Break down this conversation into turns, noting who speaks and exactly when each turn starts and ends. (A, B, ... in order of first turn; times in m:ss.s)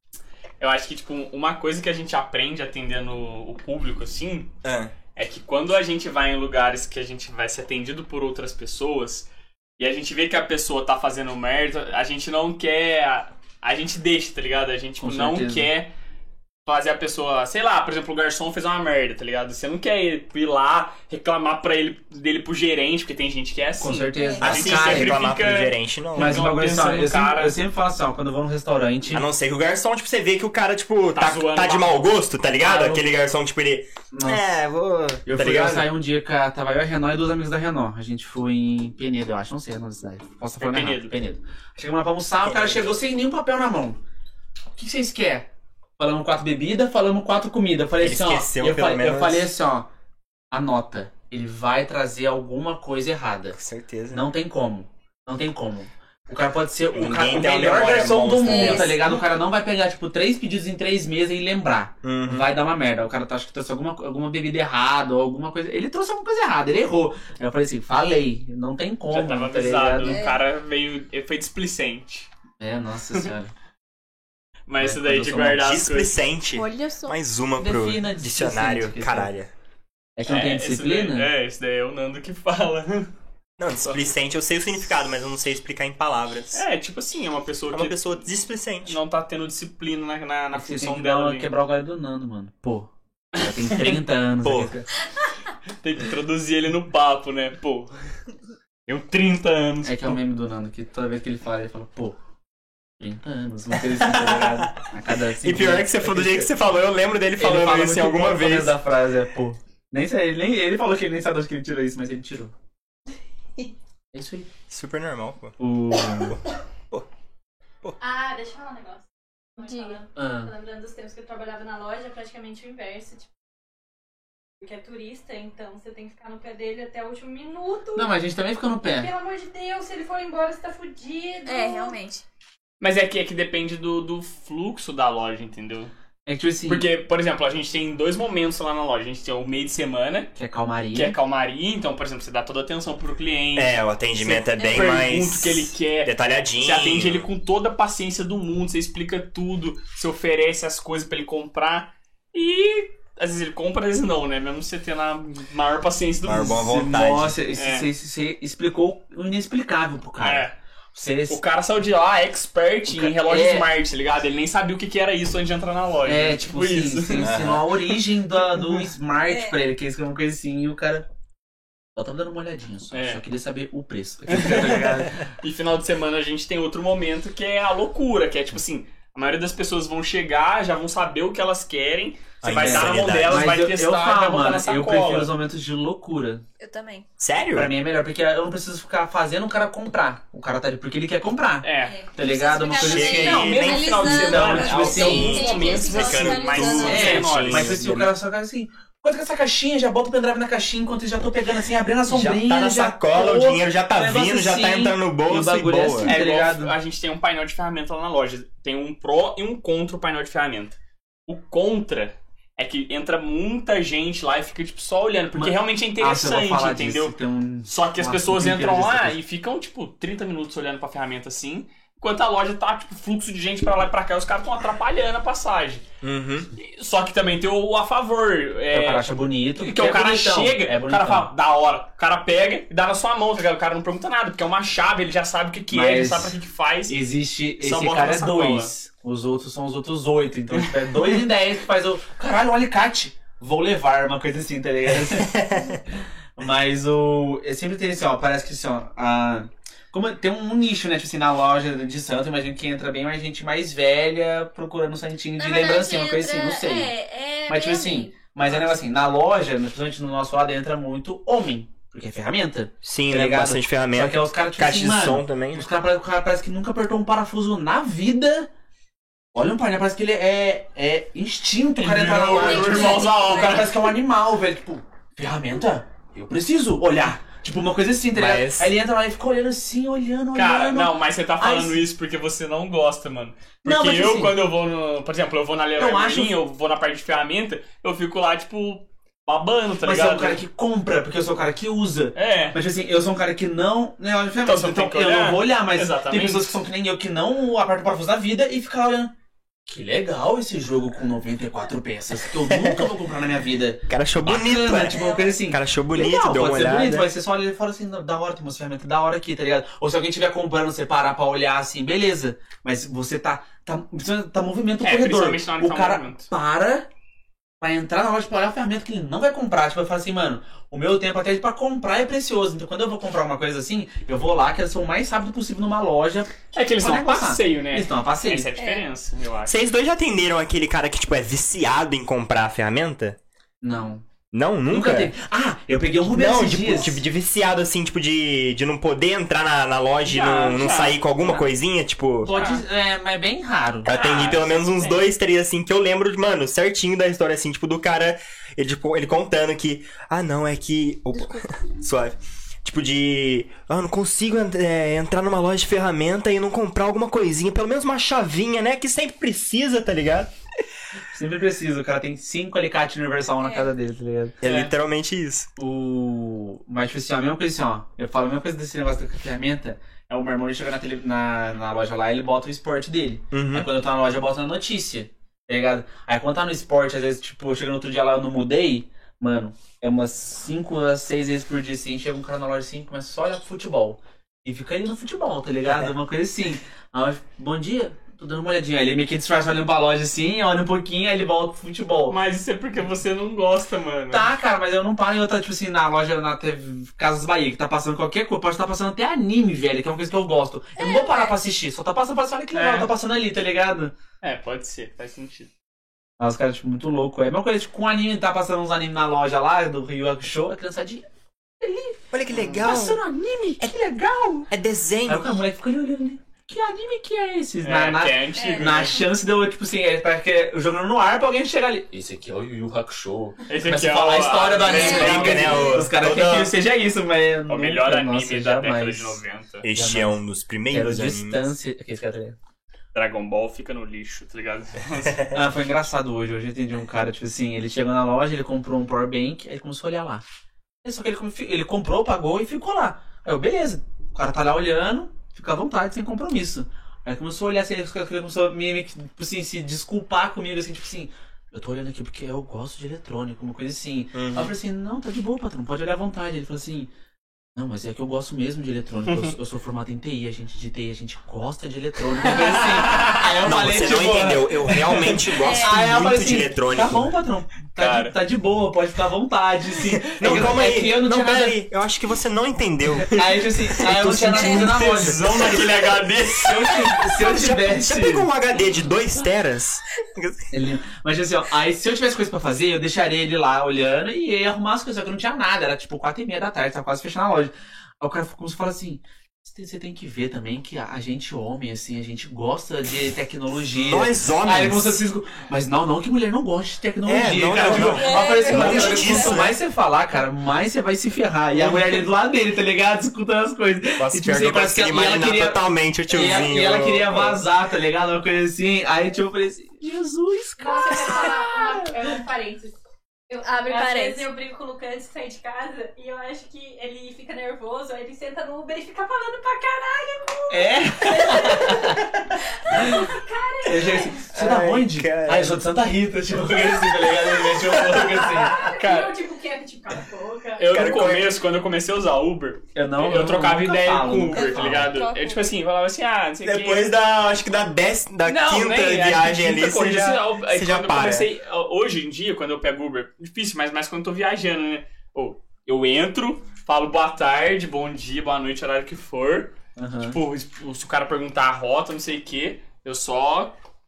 0:00.6-0:04.5 A
0:04.6-0:04.9 B
0:05.2-0:09.3 A
0:09.8-0:15.9 A
0:15.0-0:15.7 C
0:16.6-0:27.6 A
0:23.8-0:25.2 C
0:24.2-0:24.4 D
0:24.4-0:26.5 B
0:26.2-0:29.2 C
0:29.1-0:35.9 B
0:31.1-0:32.1 A
0:32.6-0:33.0 C
0:34.1-0:34.4 C
0:35.2-0:44.0 C
0:40.6-0:41.1 A
0:42.4-0:43.0 B
0:44.7-0:45.5 C
0:46.0-0:49.9 C
0:48.0-0:49.5 B
0:50.5-0:53.6 C
0:53.5-0:54.2 B
0:54.1-1:10.2 C
0:56.9-0:59.0 B
0:58.4-0:59.0 D
1:02.0-1:02.5 B
1:09.1-1:12.3 A
1:10.0-1:10.4 D
1:12.6-1:13.5 C
1:14.7-1:16.2 A
1:14.8-1:15.6 C
1:15.5-1:19.5 B
1:16.5-1:17.2 D
1:17.6-1:19.3 C
1:20.2-1:21.3 C
1:20.3-1:23.1 A
1:23.6-1:26.6 B
1:23.8-1:24.1 A
1:26.5-1:28.1 A
1:27.7-1:29.0 B
1:28.8-1:31.5 A
1:30.5-1:34.9 C
1:33.4-1:34.0 A
1:34.4-1:34.7 B
1:35.8-1:37.9 A
1:38.9-1:40.2 A
1:39.8-1:42.2 C
1:43.0-1:46.5 C
1:44.0-1:44.7 B
1:45.4-1:48.7 B
1:47.4-1:52.5 C
1:54.1-1:54.5 C
1:54.7-1:55.5 B
1:55.6-1:56.4 C
1:58.0-2:03.3 E
1:59.6-2:00.0 D
2:00.2-2:00.5 C
2:04.6-2:08.1 E
2:07.9-2:09.1 C
2:08.8-2:12.0 E
2:11.4-2:12.2 D
2:12.8-2:15.9 A
2:16.2-2:16.8 C
2:16.7-2:20.3 A
2:20.4-2:21.2 C
2:20.9-2:36.6 A
2:23.5-2:27.3 B
2:24.6-2:25.0 D
2:36.2-2:37.4 B
2:36.5-2:41.4 C
2:37.6-2:37.9 A
2:40.2-2:40.5 A
2:41.3-2:47.4 A
2:42.9-2:43.7 C
2:46.0-2:51.0 C
2:47.2-2:47.6 B
2:49.3-2:49.6 D
2:52.0-2:55.2 C
2:52.9-2:53.2 A
2:54.3-3:05.3 A
3:02.4-3:03.5 B
3:02.5-3:06.4 C
3:06.6-3:07.1 D
3:07.2-3:07.7 B
3:07.5-3:15.5 C
3:11.6-3:12.0 A
3:11.8-3:17.2 D
3:12.7-3:14.0 B
3:13.0-3:17.8 A
3:14.6-3:18.1 B
3:16.8-3:26.8 C
3:22.1-3:26.2 B
3:26.0-3:37.1 A
3:35.4-3:39.2 C
3:37.6-3:45.8 A
3:46.0-3:46.5 B
3:46.6-3:57.0 A
3:48.7-3:51.3 C
3:55.7-3:56.4 C
3:56.9-4:05.4 C
3:57.6-3:58.7 A
4:05.0-4:05.8 B
4:06.4-4:16.9 C
4:15.4-4:18.1 D
4:17.5-4:28.5 C
4:22.8-4:25.7 B
4:29.3-4:41.8 C
4:31.8-4:33.9 A
4:32.4-4:33.7 D
4:38.1-4:38.7 B
4:40.3-4:50.4 A
4:43.6-4:44.4 C
4:45.8-4:46.3 C
4:49.8-4:59.1 C
4:52.1-4:52.6 A
4:54.4-4:56.5 A
4:59.6-5:16.9 C
5:02.5-5:02.9 B
5:03.9-5:07.1 B
5:04.9-5:05.4 D
5:14.8-5:16.3 A
5:17.6-5:28.5 C
5:26.5-5:29.5 A
5:28.6-5:28.8 D
5:29.4-5:33.2 B
5:33.6-5:34.0 C
5:34.3-5:35.1 B
5:34.7-5:37.0 C
5:36.1-5:42.3 B
5:40.0-5:41.4 A
5:42.2-5:44.0 C
5:42.2-5:42.6 A
5:43.8-6:00.3 B
5:43.9-5:45.0 A
6:01.1-6:04.4 C
6:03.4-6:03.7 D
6:04.4-6:05.5 B
6:04.4-6:04.7 A
6:05.6-6:32.2 C
6:13.3-6:13.7 B
6:32.1-6:34.3 A
6:34.1-6:43.9 C
6:40.8-6:41.3 D
6:42.5-6:42.9 A
6:44.2-6:45.5 A
6:46.2-6:51.0 C
6:51.6-6:54.5 C
6:52.1-6:53.0 B
6:54.5-6:55.4 B
6:55.0-7:09.2 C
6:57.6-6:59.0 A
6:58.4-6:59.0 D
7:03.5-7:05.6 A
7:04.6-7:05.8 D
7:04.6-7:06.5 B
7:07.5-7:09.7 A
7:09.6-7:11.5 B
7:09.7-7:10.2 C
7:10.7-7:12.4 C
7:12.9-7:15.2 A
7:15.3-7:20.2 C
7:20.8-7:36.9 C
7:34.1-7:34.5 B
7:37.6-7:51.6 C
7:39.1-7:39.3 A
7:42.2-7:43.2 A
7:43.0-7:47.1 B
7:45.3-7:45.8 D
7:47.8-7:48.2 A
7:50.1-7:56.1 B
7:53.0-7:55.5 C
7:54.5-7:57.0 A
7:56.4-7:58.3 C
7:56.7-8:00.5 B
8:00.5-8:31.6 C
8:13.7-8:15.0 B
8:17.0-8:19.6 B
8:17.6-8:17.8 A
8:17.7-8:19.4 D
8:21.5-8:22.0 B
8:24.0-8:27.4 B
8:30.6-8:32.8 E
8:33.3-8:44.2 E
8:33.4-8:34.3 D
8:40.5-8:42.1 C
8:42.7-8:43.0 C
8:43.6-8:48.6 C
8:44.3-8:45.6 B
8:48.4-8:50.9 E
8:48.6-8:49.1 A
8:50.6-8:56.9 A
8:50.7-8:51.3 B
8:52.7-8:54.9 C
8:54.3-8:55.4 D
8:56.4-9:01.3 B
8:58.2-9:13.5 A
9:09.8-9:10.2 C